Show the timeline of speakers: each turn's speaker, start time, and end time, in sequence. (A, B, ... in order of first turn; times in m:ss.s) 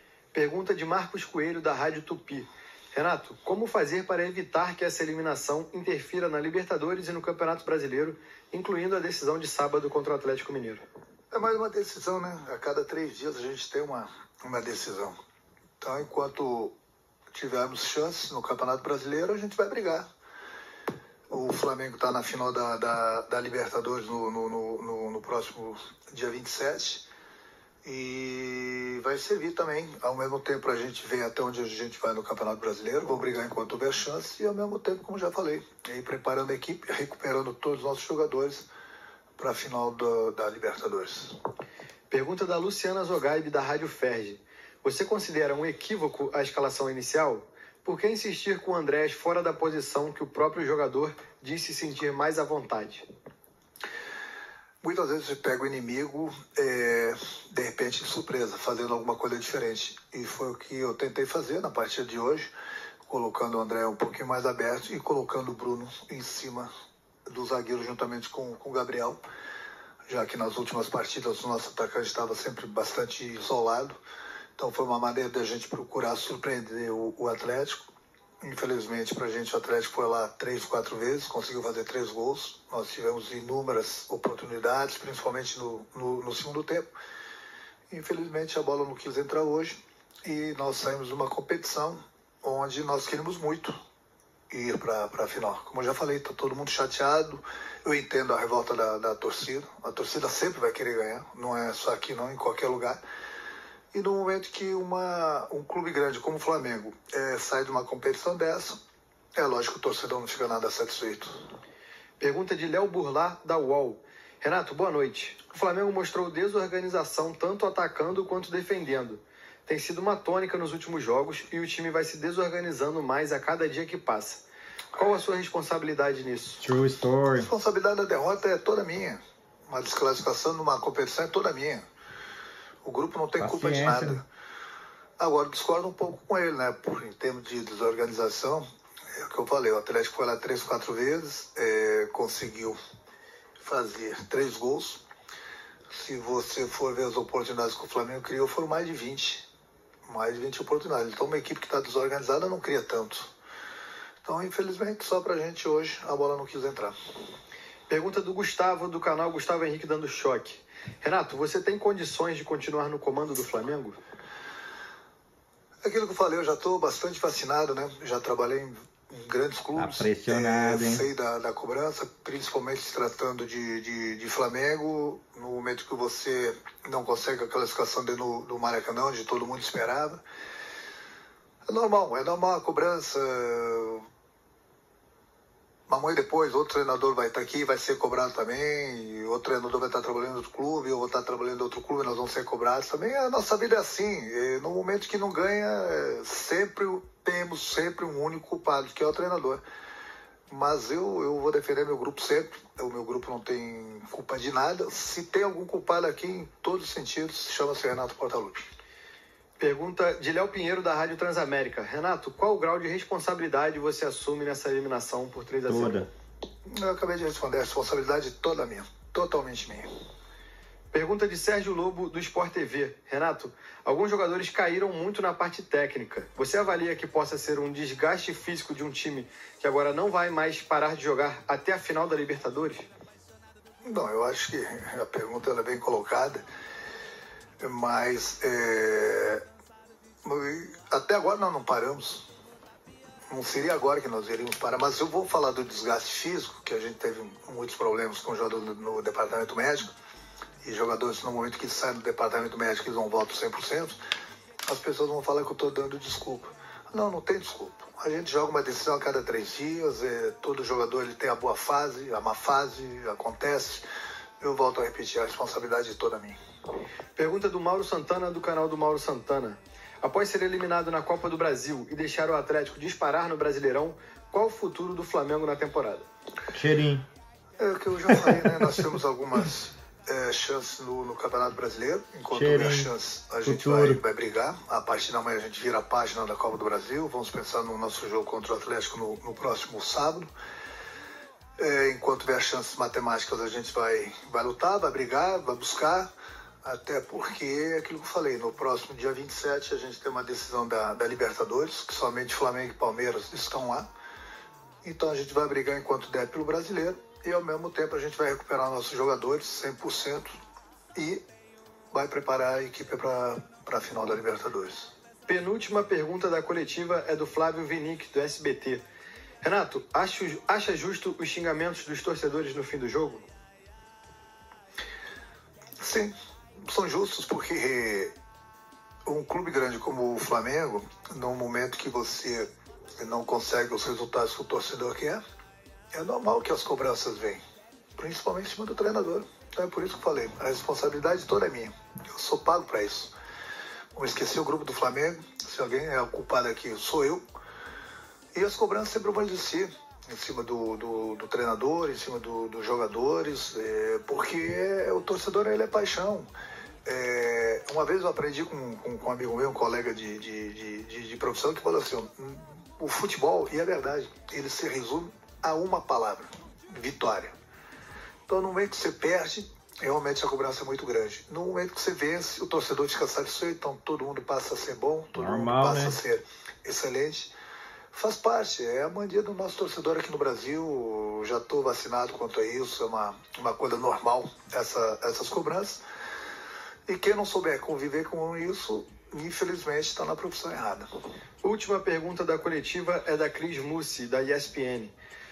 0:00.3-0:10.8 A
0:11.3-0:15.1 B
0:15.8-0:16.7 B
0:17.3-0:20.0 B
0:21.3-0:27.0 B
0:27.8-0:38.6 B
0:39.4-0:41.4 B
0:42.1-0:53.0 A
0:54.8-1:02.5 B
1:03.1-1:06.7 B
1:07.3-1:09.2 B
1:10.1-1:13.9 B
1:14.6-1:17.8 B
1:18.4-1:26.9 B
1:27.9-1:33.8 B
1:34.5-1:43.0 B
1:43.9-1:48.8 B
1:49.4-1:51.4 B
1:52.2-2:04.4 A
2:04.9-2:06.6 A
2:06.6-2:07.5 C
2:07.4-2:11.8 B
2:12.8-2:14.2 B
2:13.4-2:14.2 C
2:15.2-2:18.6 B
2:19.1-2:22.8 B
2:23.6-2:25.0 B
2:25.9-2:29.4 B
2:30.1-2:33.3 B
2:34.2-2:36.9 B
2:37.9-2:44.0 A
2:45.8-3:00.2 B
2:49.8-2:51.0 C
3:01.7-3:04.0 B
3:05.9-3:19.6 B
3:20.5-3:28.7 B
3:29.6-3:36.0 A
3:35.6-3:36.1 C
3:36.7-3:39.9 B
3:40.9-3:52.9 A
3:53.8-3:56.4 B
3:57.6-3:59.4 B
4:00.2-4:02.2 B
4:03.3-4:09.9 B
4:10.6-4:14.0 B
4:14.7-4:23.8 B
4:24.4-4:26.4 B
4:27.1-4:36.1 A
4:36.5-4:37.0 C
4:37.6-4:50.3 B
4:42.3-4:42.9 C
4:43.4-4:44.0 C
4:51.6-4:56.1 B
4:56.6-5:03.9 B
5:04.8-5:10.3 B
5:10.9-5:11.2 B
5:11.9-5:14.9 B
5:15.2-5:18.8 A
5:19.4-5:23.3 A
5:25.8-5:28.1 B
5:29.0-5:35.2 B
5:35.9-5:37.4 B
5:38.0-5:43.1 B
5:43.9-5:47.2 B
5:48.3-5:56.3 B
5:56.8-6:07.4 B
6:08.3-6:17.3 B
6:15.1-6:16.0 C
6:17.9-6:25.8 B
6:26.9-6:30.9 B
6:31.4-6:34.9 A